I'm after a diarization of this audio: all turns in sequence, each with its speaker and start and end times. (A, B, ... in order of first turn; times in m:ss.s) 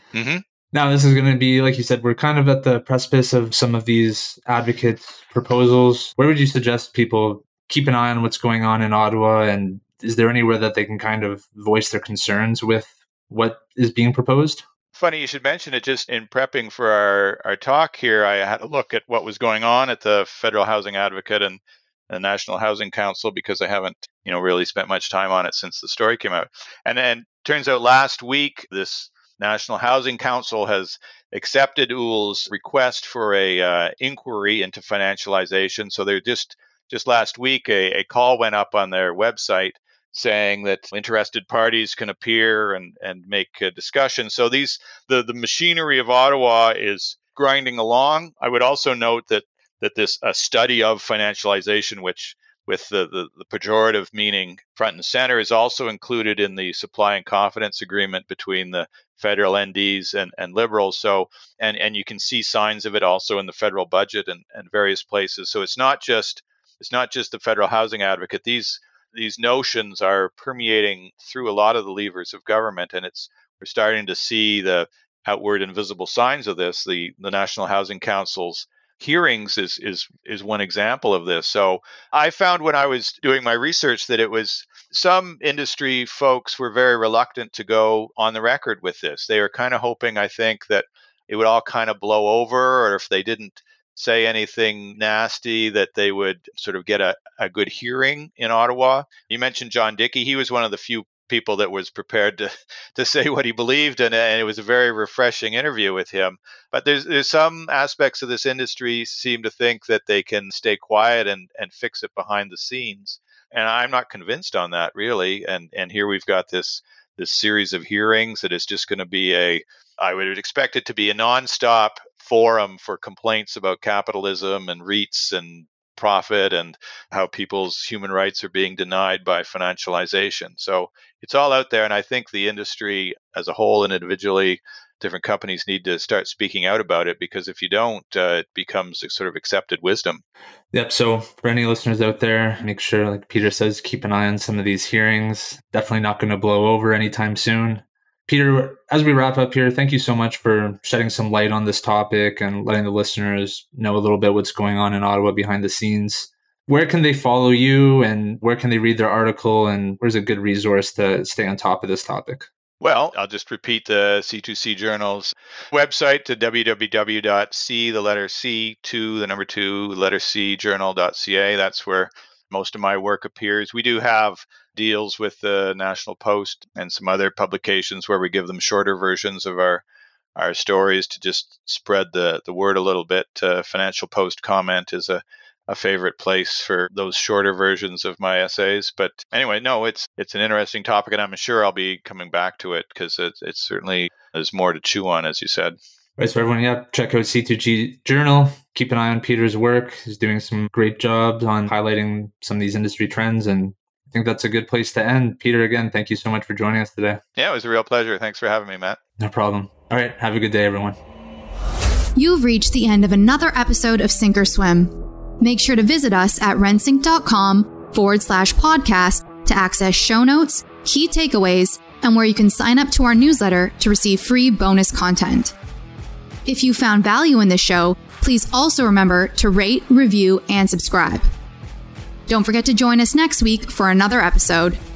0:00.1-0:00.4 A
0:00.7-0:14.6 B
0:14.9-2:20.2 A
2:20.7-2:42.5 B
2:42.8-2:59.8 A
3:00.4-3:15.8 A
3:16.2-3:27.2 B
3:27.4-3:29.0 A
3:29.2-3:31.0 B
3:32.2-3:45.5 C
3:46.4-3:51.3 C
3:52.3-3:54.8 C